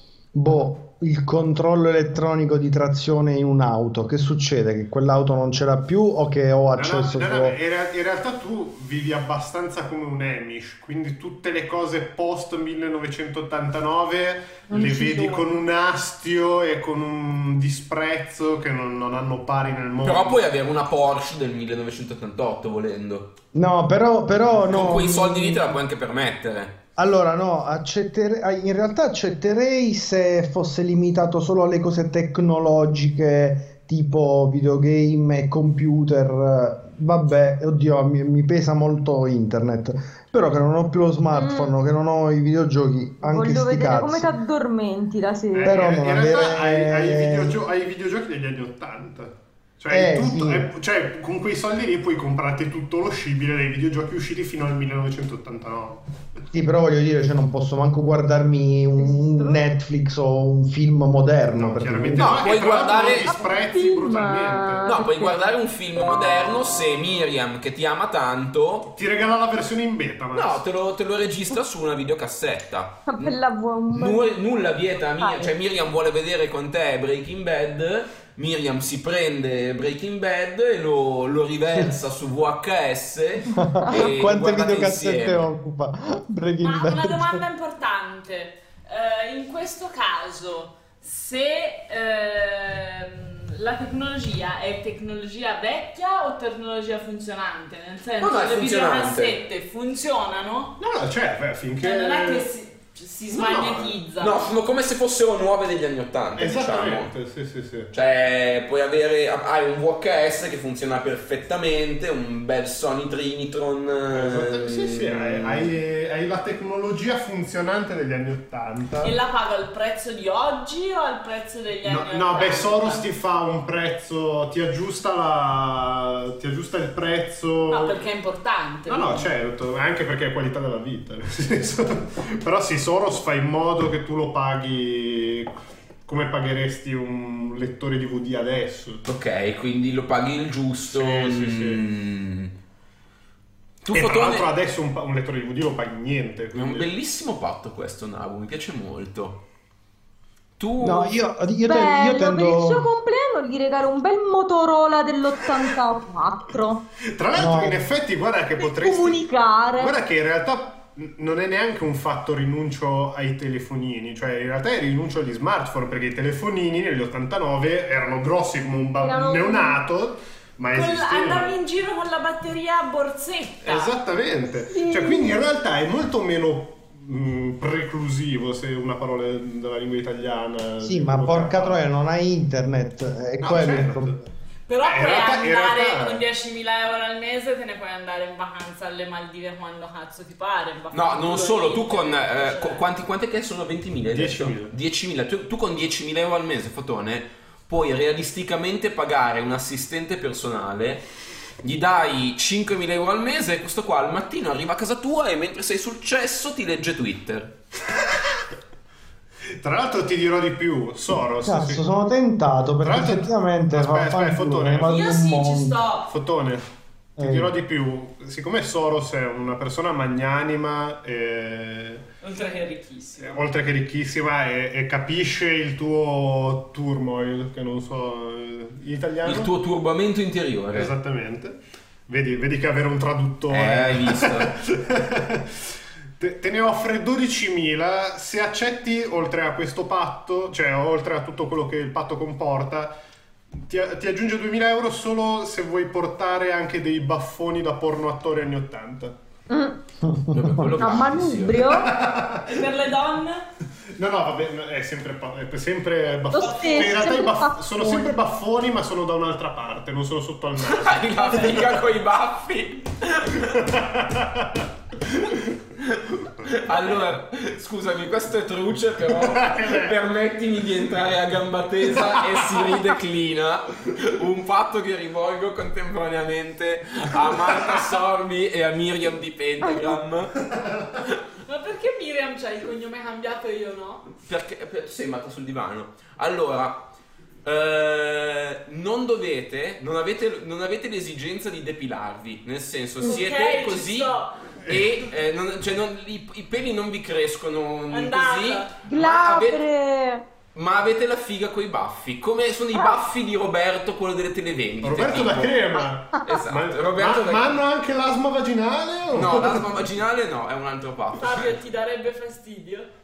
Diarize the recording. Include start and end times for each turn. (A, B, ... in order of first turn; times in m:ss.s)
0:00.3-0:07.6 A
0:06.8-0:20.4 B
0:14.7-0:15.4 C
0:20.0-0:23.3 D
0:23.5-0:25.8 A
0:24.7-0:26.8 D
0:27.0-0:44.3 A
0:41.3-0:41.7 C
0:43.2-0:45.8 C
0:45.5-0:56.1 B
0:45.6-0:47.6 A
0:49.9-0:50.7 A
0:56.5-1:02.4 A
0:59.0-0:59.7 C
1:01.6-1:04.9 B
1:02.2-1:03.3 D
1:03.4-1:05.4 C
1:04.8-1:08.9 D
1:08.9-1:10.6 B
1:10.3-1:13.4 D
1:13.1-1:14.2 C
1:13.9-1:25.5 D
1:15.2-1:15.5 C
1:23.6-1:27.4 A
1:26.6-1:40.7 E
1:38.2-1:39.4 D
1:40.8-1:42.5 B
1:41.8-1:44.5 E
1:43.3-1:47.1 D
1:46.4-1:47.9 B
1:47.9-1:55.7 D
1:54.1-1:59.2 B
1:59.0-2:03.1 E
2:01.8-2:08.0 B
2:07.7-2:09.3 E
2:08.9-2:15.5 B
2:16.0-2:19.0 B
2:19.0-2:22.5 D
2:20.9-2:21.8 B
2:23.8-2:24.5 D
2:23.9-2:26.9 B
2:26.5-2:29.4 D
2:30.6-2:31.2 D
2:30.8-2:32.9 A
2:31.6-2:36.8 C
2:37.0-2:51.6 B
2:37.3-2:37.8 A
2:38.6-2:39.9 C
2:49.0-2:49.8 C
2:50.7-2:53.9 E
2:53.6-3:01.8 B
2:54.6-2:55.3 C
3:00.8-3:04.2 A
3:03.4-3:04.2 B
3:04.7-3:12.8 E
3:04.8-3:06.2 B
3:10.9-3:21.1 D
3:14.0-3:14.7 B
3:21.6-3:27.5 D
3:29.6-3:31.8 B
3:31.4-3:35.8 A
3:32.8-3:35.1 B
3:34.8-3:36.1 E
3:36.1-3:36.7 B
3:37.2-3:37.5 A
3:37.2-3:42.0 B
3:42.2-3:43.4 E
3:43.2-3:49.5 B
3:49.2-3:50.9 D
3:50.7-3:51.6 B
3:52.1-4:02.9 B
3:53.5-3:54.5 D
4:03.6-4:09.1 B
4:09.5-4:09.8 C
4:10.1-4:10.6 A
4:10.3-4:11.7 D
4:10.8-4:11.9 C
4:11.7-4:12.7 B
4:12.4-4:13.4 E
4:14.0-4:21.8 B
4:16.3-4:17.2 E
4:16.3-4:18.1 C
4:20.6-4:23.6 D
4:23.5-4:24.6 B
4:25.8-4:40.4 D
4:26.7-4:27.0 E
4:29.1-4:29.9 B
4:41.4-4:44.1 E
4:44.2-4:46.9 D
4:47.4-4:59.6 D
4:53.0-4:54.4 E
4:57.9-4:58.8 E
4:58.8-5:00.2 C
5:00.5-5:07.6 D
5:04.8-5:09.7 B
5:09.1-5:11.6 D
5:11.2-5:12.9 E